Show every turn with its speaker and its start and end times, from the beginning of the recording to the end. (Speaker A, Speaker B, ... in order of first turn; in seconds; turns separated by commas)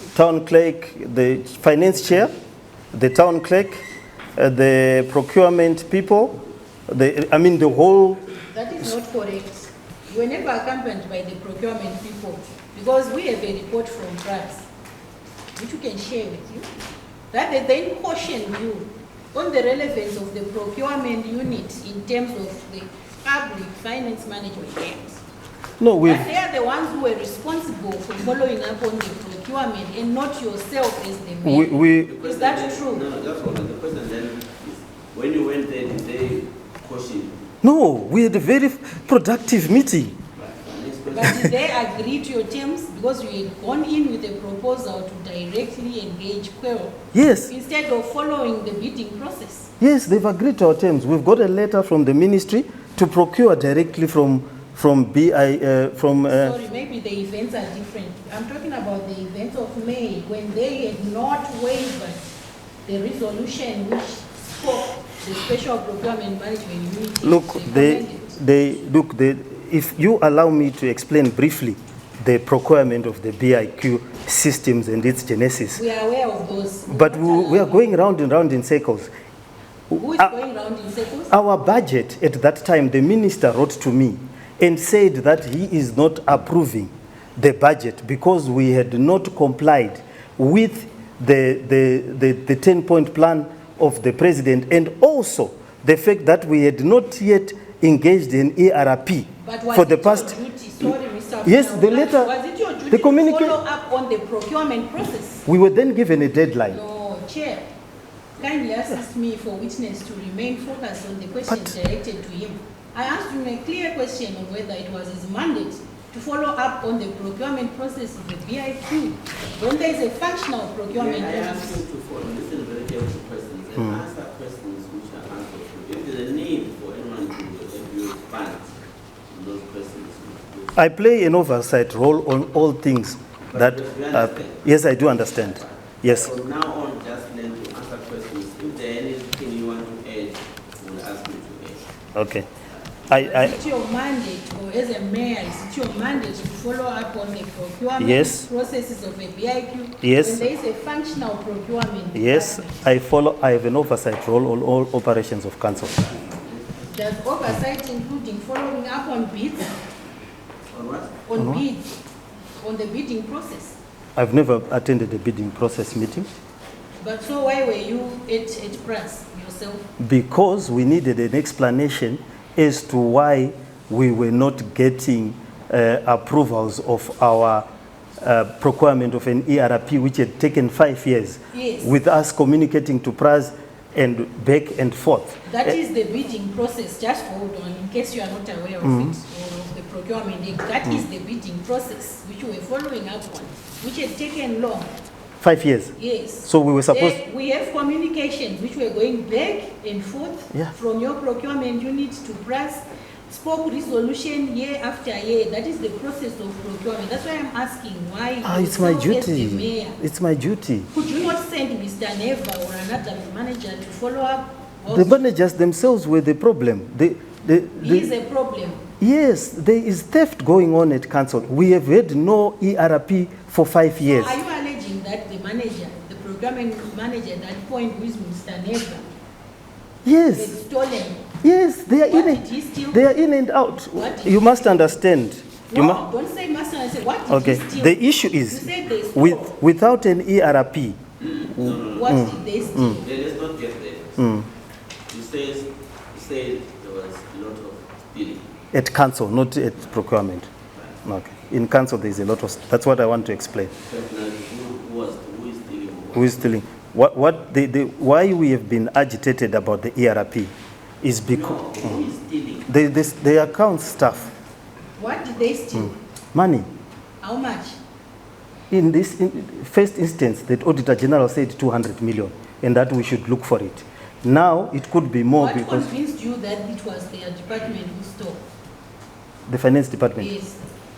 Speaker A: 0.1-2.3, Speaker A: 2.9-3.8, Speaker A: 4.4-8.2, Speaker B: 8.5-14.7, Speaker B: 15.6-16.7, Speaker B: 17.3-25.2, Speaker A: 25.8-26.3, Speaker B: 26.0-33.1, Speaker A: 31.4-32.1, Speaker C: 32.1-37.4, Speaker A: 37.6-40.2, Speaker C: 40.4-41.6, Speaker B: 41.1-49.7, Speaker A: 47.1-47.5, Speaker A: 49.8-56.5, Speaker B: 56.2-62.3, Speaker B: 62.9-68.4, Speaker A: 67.2-75.8, Speaker B: 75.7-77.9, Speaker A: 76.9-79.1, Speaker A: 79.9-80.3, Speaker B: 80.0-81.3, Speaker A: 81.3-100.9, Speaker B: 99.4-105.5, Speaker A: 101.5-102.3, Speaker A: 102.9-103.6, Speaker A: 105.5-106.8, Speaker B: 106.7-107.7, Speaker B: 108.4-121.8, Speaker A: 111.5-111.7, Speaker C: 120.9-128.8, Speaker C: 129.3-130.8, Speaker A: 130.8-136.3, Speaker C: 133.5-141.9, Speaker A: 142.2-142.5, Speaker C: 142.7-143.0, Speaker A: 143.1-143.6, Speaker B: 143.1-152.8, Speaker A: 148.0-148.5, Speaker A: 150.0-150.5, Speaker A: 152.1-156.0, Speaker C: 155.9-156.9, Speaker B: 156.9-159.8, Speaker C: 160.7-161.2, Speaker B: 161.3-161.9, Speaker A: 161.4-161.6, Speaker B: 162.6-163.8, Speaker A: 164.2-166.3, Speaker B: 167.0-169.9, Speaker A: 170.0-177.7, Speaker A: 178.2-185.7, Speaker B: 181.5-181.9, Speaker B: 185.5-194.9, Speaker A: 188.8-189.2, Speaker A: 195.4-197.2, Speaker B: 196.0-210.0, Speaker A: 208.4-210.9, Speaker B: 210.9-215.3, Speaker A: 214.9-218.1, Speaker B: 217.8-218.9, Speaker A: 219.0-224.4, Speaker B: 224.0-229.1, Speaker A: 230.1-230.6, Speaker B: 230.3-231.3, Speaker A: 231.4-236.0, Speaker B: 232.1-233.2, Speaker B: 233.9-234.9, Speaker B: 235.7-239.6, Speaker A: 237.3-241.0, Speaker C: 241.2-244.2, Speaker A: 241.6-243.0, Speaker B: 241.8-243.1, Speaker A: 244.2-244.5, Speaker C: 245.1-248.5, Speaker A: 248.7-250.5, Speaker A: 251.0-253.7, Speaker C: 253.8-256.6, Speaker A: 256.1-260.5, Speaker A: 261.0-262.0, Speaker C: 261.3-262.7, Speaker A: 262.7-264.3, Speaker B: 265.0-265.9, Speaker A: 265.8-266.7, Speaker B: 267.2-267.8, Speaker A: 268.7-275.9, Speaker B: 275.3-278.4, Speaker A: 279.5-280.3, Speaker B: 280.2-280.6